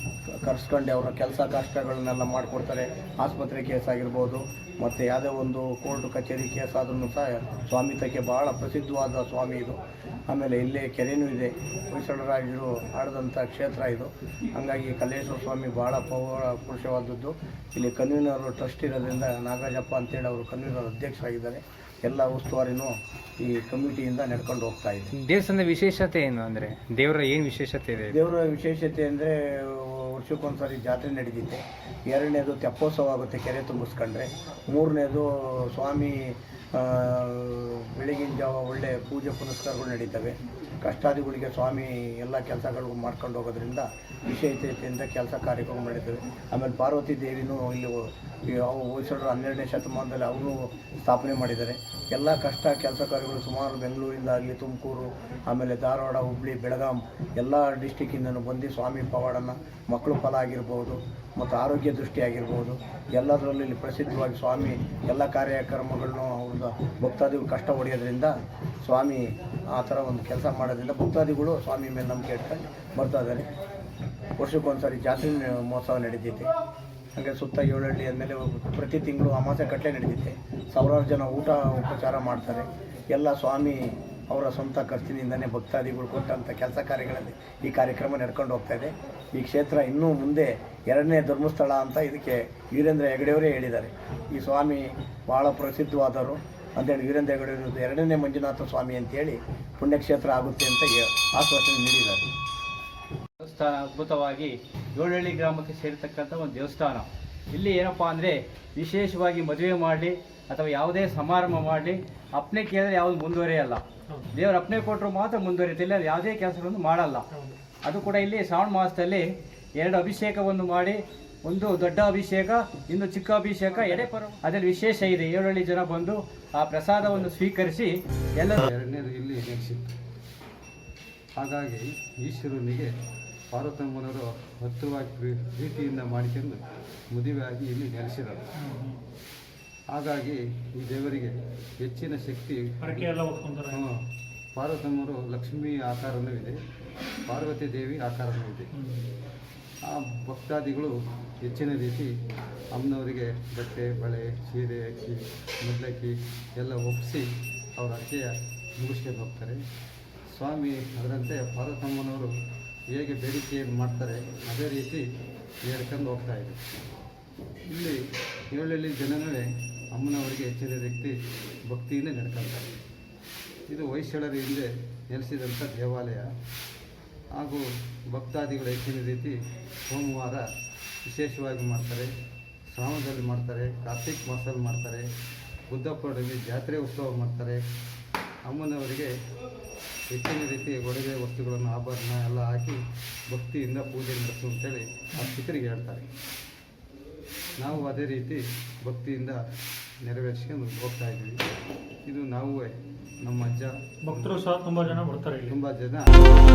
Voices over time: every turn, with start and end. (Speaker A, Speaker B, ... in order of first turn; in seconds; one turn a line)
Speaker A: 0.4-9.8
Speaker A: 10.3-25.1
Speaker B: 25.1-28.2
Speaker A: 28.1-73.5
Speaker A: 74.4-76.5
Speaker A: 77.1-102.3
Speaker C: 103.4-128.6
Speaker D: 128.6-129.9
Speaker D: 131.4-132.9
Speaker D: 133.5-138.5
Speaker E: 138.6-139.0
Speaker D: 139.9-143.1
Speaker E: 142.8-143.8
Speaker D: 143.7-144.0
Speaker D: 144.6-146.6
Speaker D: 147.3-148.7
Speaker D: 149.8-152.1
Speaker D: 152.7-159.6
Speaker D: 160.3-162.3
Speaker D: 162.9-165.0
Speaker D: 165.7-166.6
Speaker D: 167.7-168.0
Speaker D: 168.5-171.1
Speaker D: 171.7-172.8
Speaker D: 173.7-176.3
Speaker D: 177.3-180.4
Speaker D: 181.1-182.1
Speaker D: 182.7-185.1
Speaker D: 185.7-187.6
Speaker D: 188.5-189.1
Speaker D: 190.1-192.8
Speaker D: 193.3-196.1
Speaker D: 197.6-199.4
Speaker D: 200.0-201.4
Speaker D: 202.0-202.7
Speaker D: 203.2-204.5
Speaker E: 204.0-205.5
Speaker D: 205.4-206.3